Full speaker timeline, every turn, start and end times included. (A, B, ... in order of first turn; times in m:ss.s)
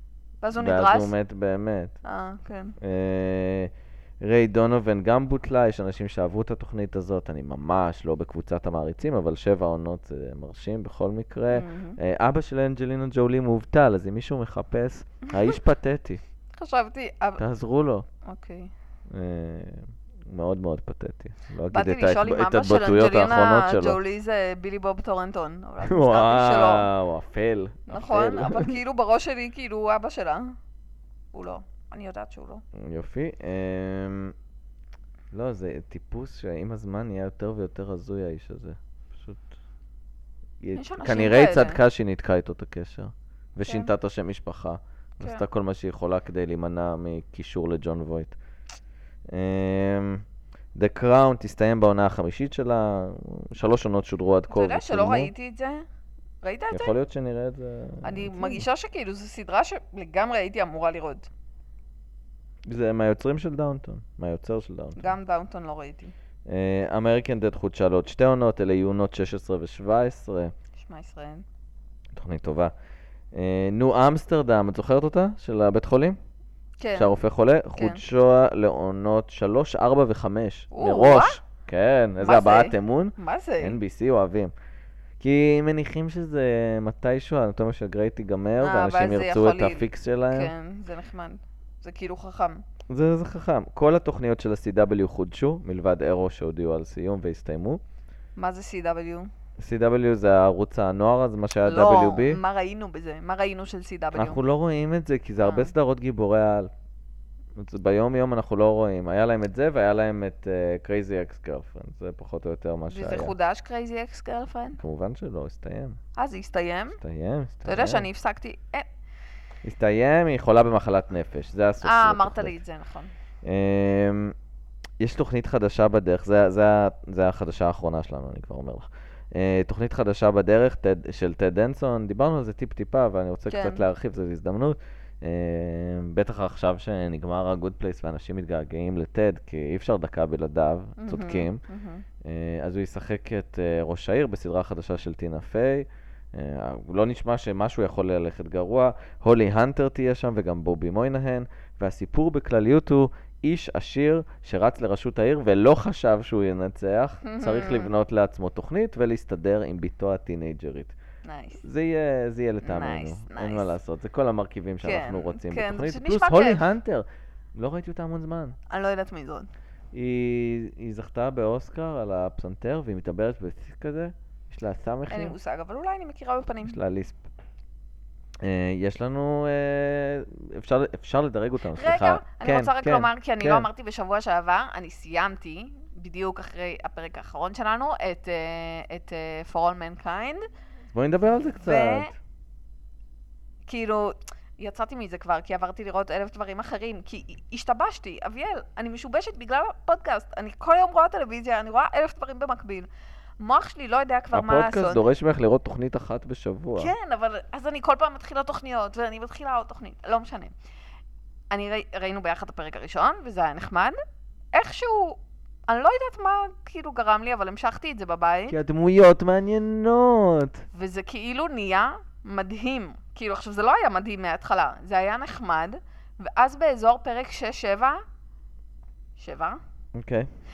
0:00.4-0:01.1 A
0:00.6-0:02.0 B
0:02.0-0:02.8 A
0:02.8-0:16.2 B
0:11.5-0:12.0 A
0:16.6-0:17.4 A
0:17.4-0:18.0 B
0:18.2-0:18.7 A
0:19.1-0:24.0 B
0:21.7-0:26.9 A
0:25.8-0:28.7 B
0:27.9-0:30.6 A
0:31.3-0:32.6 A
0:32.7-0:34.3 B
0:35.3-0:39.4 B
0:40.6-0:48.4 B
0:40.7-0:41.8 A
0:43.6-0:43.9 A
0:49.3-0:50.2 B
0:50.7-0:55.3 B
0:54.5-0:55.8 A
0:56.4-0:56.9 A
0:56.7-0:58.6 B
0:58.0-1:01.3 A
1:02.7-1:05.1 B
1:05.0-1:06.1 A
1:06.5-1:10.5 B
1:10.8-1:11.4 A
1:12.1-1:12.7 B
1:13.3-1:16.2 B
1:16.8-1:17.2 A
1:16.9-1:24.5 B
1:17.8-1:18.0 A
1:20.7-1:21.4 A
1:22.2-1:23.8 A
1:25.2-1:30.5 B
1:28.6-1:32.6 A
1:32.9-1:37.8 B
1:38.4-1:39.3 A
1:39.6-1:42.4 B
1:41.6-1:44.4 A
1:44.1-1:46.7 B
1:45.4-1:45.7 A
1:47.6-1:53.3 B
1:52.9-1:54.8 A
1:54.8-1:56.0 B
1:56.2-1:57.0 A
1:57.0-1:58.1 B
1:57.6-1:58.9 A
1:59.6-2:02.6 B
2:01.8-2:03.1 A
2:03.4-2:04.3 B
2:05.0-2:21.6 B
2:13.5-2:13.8 A
2:21.0-2:22.0 A
2:22.2-2:40.9 B
2:37.2-2:37.9 A
2:41.2-2:41.6 A
2:41.6-2:48.6 B
2:42.6-2:43.7 A
2:44.8-2:46.6 A
2:48.7-2:49.5 A
2:49.9-2:55.3 B
2:55.1-2:56.7 A
2:56.6-2:57.2 B
2:58.4-3:03.7 B
3:01.7-3:10.4 A
3:10.9-3:12.1 B
3:11.6-3:12.1 A
3:13.7-3:22.9 A
3:23.4-3:25.0 A
3:24.3-3:26.9 B
3:26.8-3:30.5 A
3:31.5-3:34.0 A
3:34.5-3:38.6 A
3:38.5-3:40.6 B
3:40.7-3:48.0 A
3:49.2-3:49.6 A
3:49.9-3:50.3 B